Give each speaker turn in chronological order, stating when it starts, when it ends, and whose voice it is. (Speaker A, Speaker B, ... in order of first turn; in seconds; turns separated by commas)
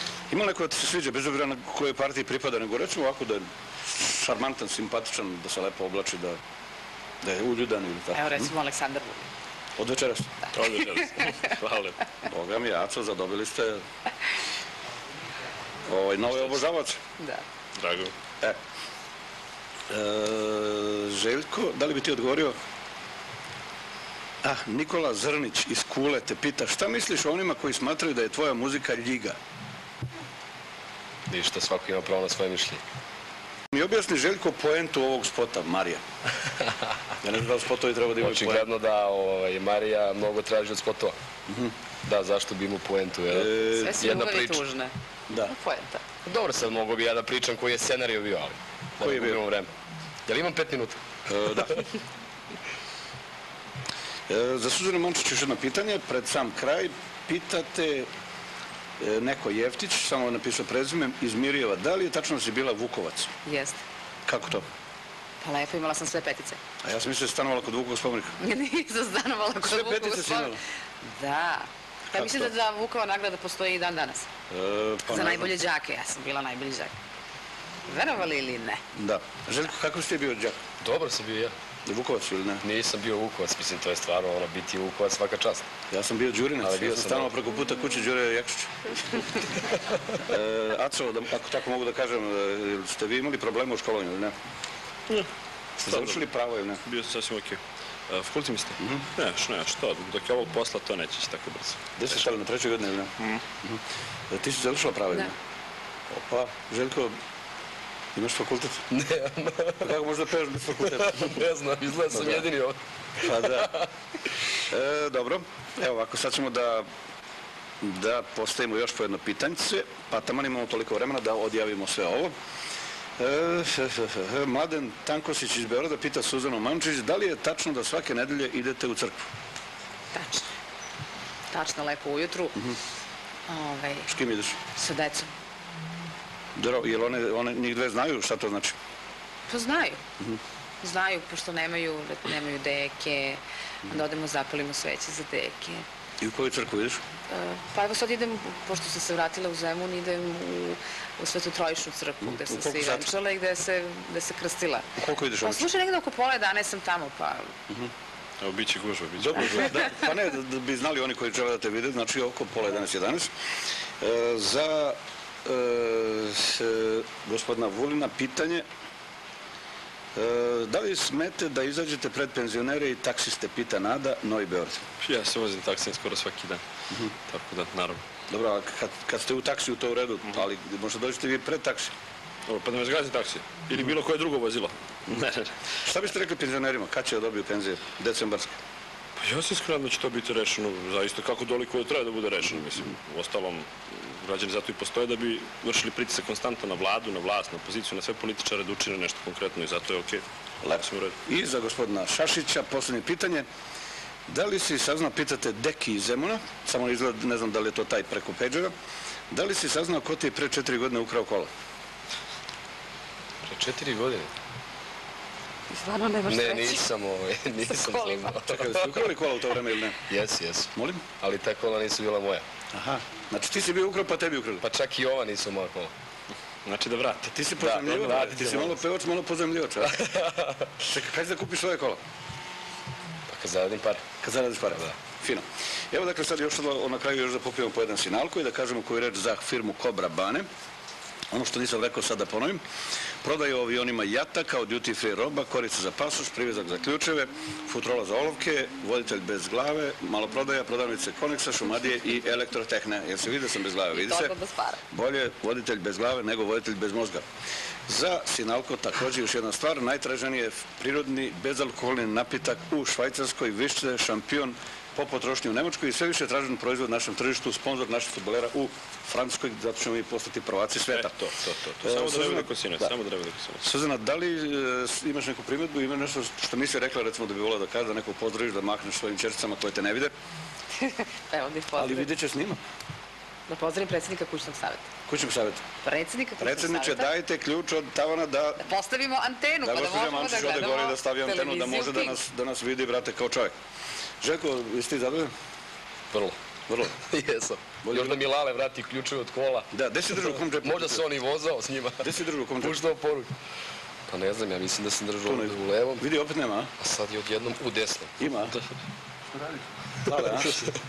Speaker A: 0.3-6.4, Speaker A: 7.2-8.5, Speaker B: 8.1-9.3, Speaker A: 9.8-10.5, Speaker C: 10.5-12.0, Speaker A: 12.3-13.8, Speaker A: 15.8-17.0, Speaker B: 17.2-17.4, Speaker C: 17.8-18.1, Speaker A: 19.9-22.6, Speaker A: 24.4-29.4, Speaker D: 31.3-32.8, Speaker A: 33.7-36.0, Speaker A: 37.2-38.7, Speaker D: 38.2-41.2, Speaker A: 41.5-41.7, Speaker D: 42.0-44.6, Speaker A: 43.3-44.0, Speaker B: 43.8-46.0, Speaker D: 46.2-49.7, Speaker A: 49.0-49.4, Speaker D: 50.3-51.0, Speaker A: 51.3-51.8, Speaker A: 54.3-58.1, Speaker A: 59.0-63.3, Speaker B: 63.5-63.8, Speaker A: 64.3-64.7, Speaker B: 65.4-66.6, Speaker A: 66.8-68.4, Speaker B: 68.4-74.3, Speaker A: 69.6-70.6, Speaker A: 72.1-72.5, Speaker A: 74.5-75.5, Speaker B: 75.1-77.0, Speaker B: 77.9-78.8, Speaker A: 78.9-80.6, Speaker D: 80.8-81.5, Speaker A: 81.8-82.6, Speaker D: 82.6-85.7, Speaker A: 85.9-89.2, Speaker D: 86.6-87.3, Speaker A: 90.2-94.3, Speaker A: 95.8-96.8, Speaker C: 95.9-96.2, Speaker C: 96.8-102.1, Speaker A: 98.8-99.1, Speaker A: 102.0-105.4, Speaker A: 106.1-107.2, Speaker A: 108.2-108.8, Speaker D: 108.9-109.9, Speaker A: 109.8-111.4, Speaker D: 110.8-113.9, Speaker A: 112.1-112.5, Speaker A: 113.2-113.8, Speaker A: 114.6-116.9, Speaker A: 117.8-122.3, Speaker A: 123.2-129.3, Speaker B: 130.1-130.5, Speaker B: 131.5-132.6, Speaker B: 133.5-134.1, Speaker A: 134.1-134.6, Speaker B: 134.7-135.3, Speaker A: 136.6-138.8, Speaker B: 139.5-140.0, Speaker B: 140.8-145.9, Speaker A: 146.2-147.0, Speaker B: 147.3-157.6, Speaker A: 152.2-153.1, Speaker A: 155.0-155.7, Speaker C: 158.4-159.8, Speaker A: 159.2-163.3, Speaker A: 164.0-168.7, Speaker A: 170.2-174.9, Speaker C: 175.0-176.6, Speaker C: 177.3-178.0, Speaker A: 178.3-181.9, Speaker C: 182.5-185.6, Speaker A: 185.8-188.6, Speaker C: 189.2-200.2, Speaker A: 200.6-203.5, Speaker C: 200.8-201.2, Speaker A: 204.3-208.7, Speaker A: 209.3-211.5, Speaker D: 213.4-214.3, Speaker B: 215.7-216.9, Speaker D: 216.3-219.1, Speaker B: 217.6-218.4, Speaker A: 218.5-220.0, Speaker D: 220.1-222.4, Speaker A: 220.8-221.1, Speaker A: 222.7-224.6, Speaker D: 224.6-225.9, Speaker C: 226.7-228.3, Speaker A: 227.3-230.0, Speaker D: 227.6-228.8, Speaker D: 229.9-230.7, Speaker A: 230.8-232.0, Speaker D: 233.3-234.1, Speaker A: 234.2-240.5, Speaker A: 241.3-242.6, Speaker A: 243.2-254.4, Speaker B: 253.9-254.8, Speaker A: 254.9-257.2, Speaker A: 257.9-271.2, Speaker C: 270.9-273.6, Speaker A: 271.8-272.9, Speaker A: 273.6-280.1, Speaker B: 280.8-282.1, Speaker A: 281.8-282.6, Speaker B: 283.5-284.9, Speaker A: 285.1-285.6, Speaker B: 285.8-287.1, Speaker A: 286.4-288.6, Speaker B: 288.6-292.2, Speaker A: 289.6-293.5, Speaker A: 294.2-295.3, Speaker D: 296.1-296.4, Speaker A: 296.7-296.9, Speaker D: 296.9-303.3, Speaker A: 297.8-298.2, Speaker A: 299.7-301.1, Speaker A: 302.0-302.8, Speaker D: 304.1-306.0, Speaker A: 305.2-306.7, Speaker D: 306.8-308.1, Speaker A: 308.2-308.6, Speaker A: 309.4-310.7